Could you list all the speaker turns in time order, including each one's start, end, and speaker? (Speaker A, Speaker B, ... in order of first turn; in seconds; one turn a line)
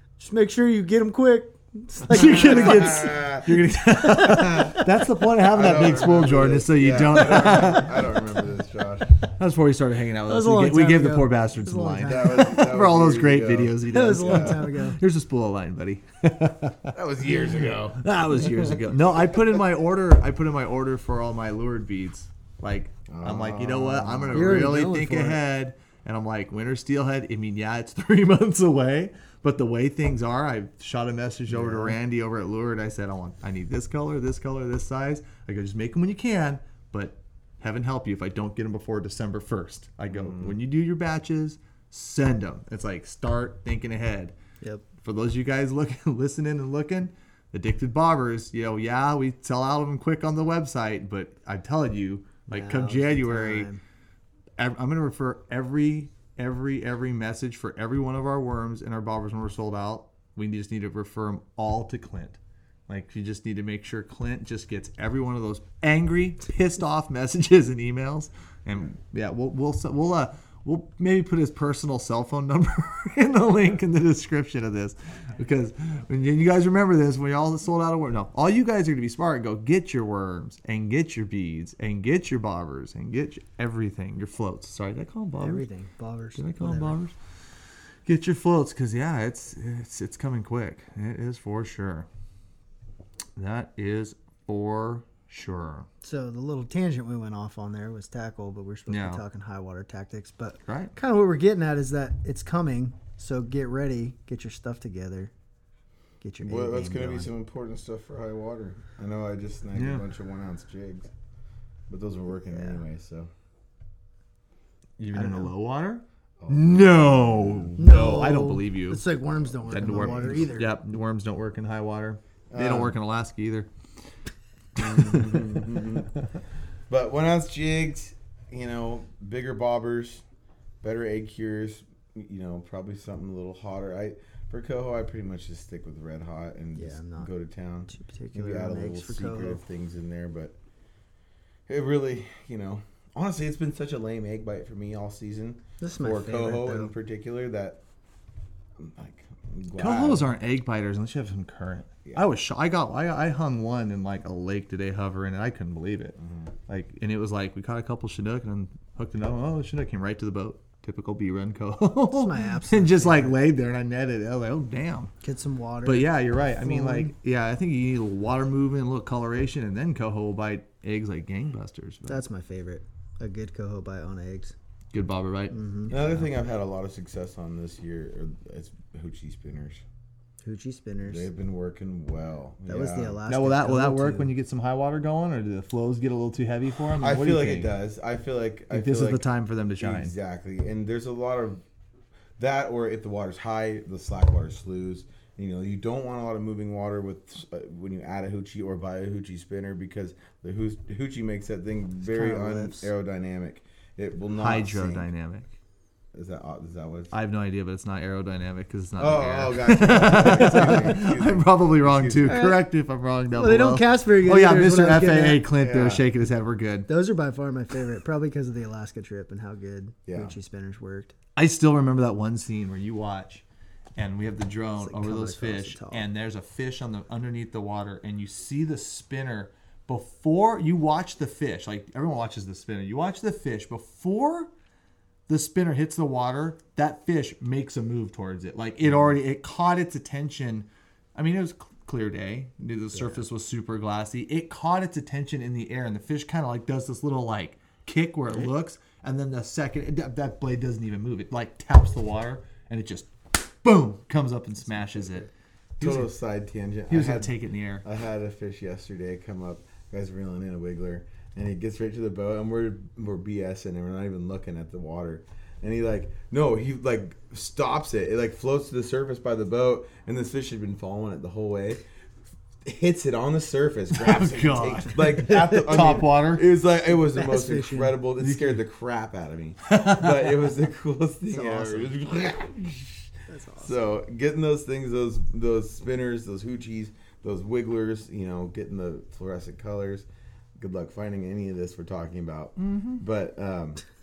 Speaker A: 0.2-3.1
Speaker B: 2.1-8.1
Speaker C: 2.1-4.8
Speaker A: 4.0-4.9
Speaker C: 5.4-9.1
Speaker B: 9.3-44.3
Speaker A: 10.3-12.6
Speaker C: 12.1-14.6
Speaker A: 13.9-15.0
Speaker C: 16.9-18.9
Speaker C: 23.1-24.8
Speaker A: 24.3-25.4
Speaker A: 31.5-31.9
Speaker C: 40.1-40.5
Speaker B: 45.0-53.7
Speaker A: 52.5-53.8
Speaker B: 54.6-85.7
Speaker A: 85.4-86.9
Speaker B: 86.3-87.1
Speaker B: 88.0-92.1
Speaker B: 93.3-95.9
Speaker A: 96.0-105.3
Speaker B: 98.9-99.2
Speaker B: 100.7-100.9
Speaker A: 106.2-107.3
Speaker C: 106.4-111.1
Speaker B: 109.7-110.0
Speaker C: 111.9-113.3
Speaker A: 112.5-112.8
Speaker B: 115.0-119.0
Speaker A: 115.1-115.5
Speaker C: 116.4-117.8
Speaker A: 117.8-120.7
Speaker B: 119.7-123.7
Speaker C: 119.7-120.5
Speaker C: 122.5-123.0
Speaker C: 124.7-126.1
Speaker B: 124.8-125.6
Speaker C: 126.9-130.2
Speaker C: 130.8-140.6
Speaker A: 136.8-137.3
Speaker A: 137.9-139.6
Speaker C: 141.7-147.8
Speaker A: 145.8-146.9
Speaker C: 148.8-150.3
Speaker B: 149.8-156.2
Speaker C: 156.2-156.5
Speaker B: 156.7-165.1
Speaker A: 162.1-163.4
Speaker A: 165.2-167.1
Speaker B: 165.8-172.2
Speaker A: 172.1-174.5
Speaker B: 174.9-176.3
Speaker A: 175.5-175.9
Speaker C: 175.9-179.8
Speaker A: 180.4-181.3
Speaker C: 181.0-183.2
Speaker A: 182.7-184.3
Speaker B: 183.3-187.7
Speaker C: 187.0-189.2
Speaker B: 188.7-190.1
Speaker C: 189.8-191.6
Speaker C: 192.4-205.1
Speaker A: 202.0-202.9
Speaker B: 204.3-205.5
Speaker C: 206.1-207.1
Speaker B: 207.1-216.9
Speaker C: 209.0-212.5
Speaker A: 212.2-212.6
Speaker A: 213.3-215.5
Speaker C: 215.5-216.0
Speaker A: 216.9-221.1
Speaker C: 220.1-220.3
Speaker B: 221.3-223.4
Speaker B: 223.9-234.5
Speaker A: 224.8-226.0
Speaker B: 235.3-256.1
Speaker C: 254.7-255.3
Speaker C: 255.8-271.8
Speaker B: 256.9-257.8
Speaker C: 272.6-290.1
Speaker B: 273.9-276.4
Speaker A: 276.9-278.0
Speaker B: 278.2-278.6
Speaker B: 279.7-280.3
Speaker A: 281.3-281.9
Speaker A: 283.3-283.8
Speaker C: 290.6-293.8
Speaker B: 292.6-293.0